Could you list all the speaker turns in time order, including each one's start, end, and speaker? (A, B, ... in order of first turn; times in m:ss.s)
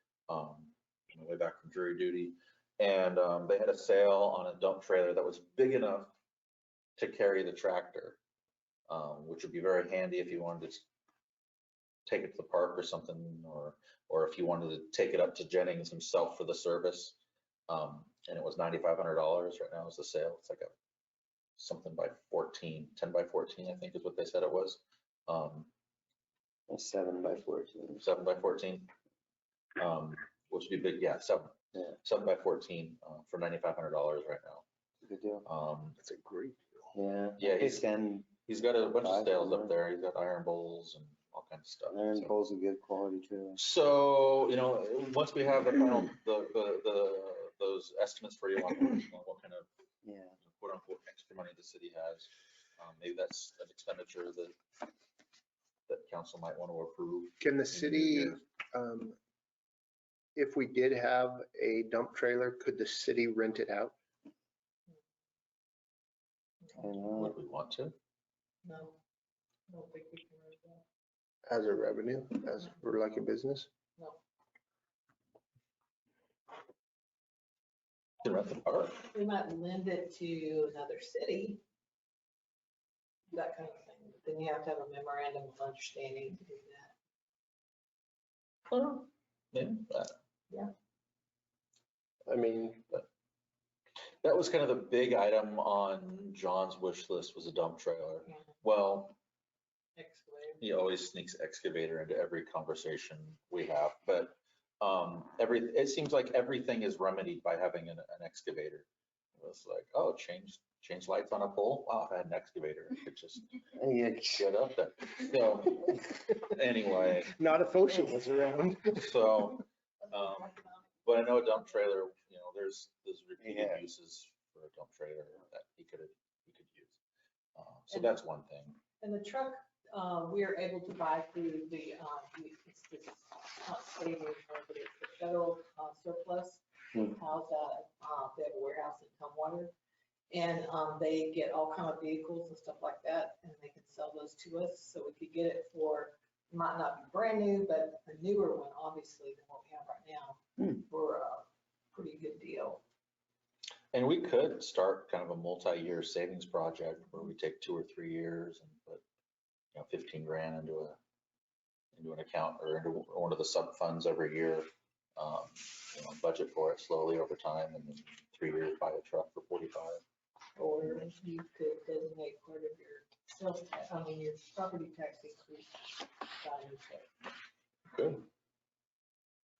0:00.3-0:06.1 A
0:07.0-0:08.2 A
0:08.9-0:10.8 A
0:12.0-0:17.2 A
0:17.7-0:20.7 A
0:21.6-0:25.7 A
0:26.7-0:28.0 B
0:28.0-0:28.9 A
0:29.8-0:34.6 A
0:35.0-0:35.4 B
0:35.4-0:36.0 A
0:36.0-0:36.8 C
0:36.9-0:38.2 B
0:37.4-0:42.3 A
0:39.1-0:39.7 B
0:41.9-0:43.6 B
0:43.6-0:49.7 A
0:50.0-0:50.3 B
0:50.4-0:54.5 A
0:55.9-0:58.4 A
0:57.4-0:59.2 C
1:00.4-1:03.9 C
1:06.8-1:07.3 B
1:07.1-1:07.9 A
1:08.6-1:09.0 D
1:09.7-1:10.8 D
1:11.5-1:13.7 C
1:18.2-1:19.1 A
1:19.0-1:21.6 D
1:23.3-1:26.9 D
1:28.7-1:30.1 A
1:32.2-1:32.8 C
1:34.2-1:39.2 A
1:40.0-1:40.6 D
1:40.6-1:53.4 A
1:53.8-1:54.4 B
1:54.4-1:57.4 A
1:57.4-1:59.2 C
1:59.0-2:07.0 A
2:00.1-2:00.9 D
2:03.4-2:03.8 B
2:07.6-2:08.8 A
2:09.0-2:19.7 D
2:20.3-2:32.8 D
2:33.9-2:39.0 A
2:39.7-2:41.0 A
2:41.9-2:50.0 A
2:50.6-2:57.1 D
2:57.9-2:58.2 A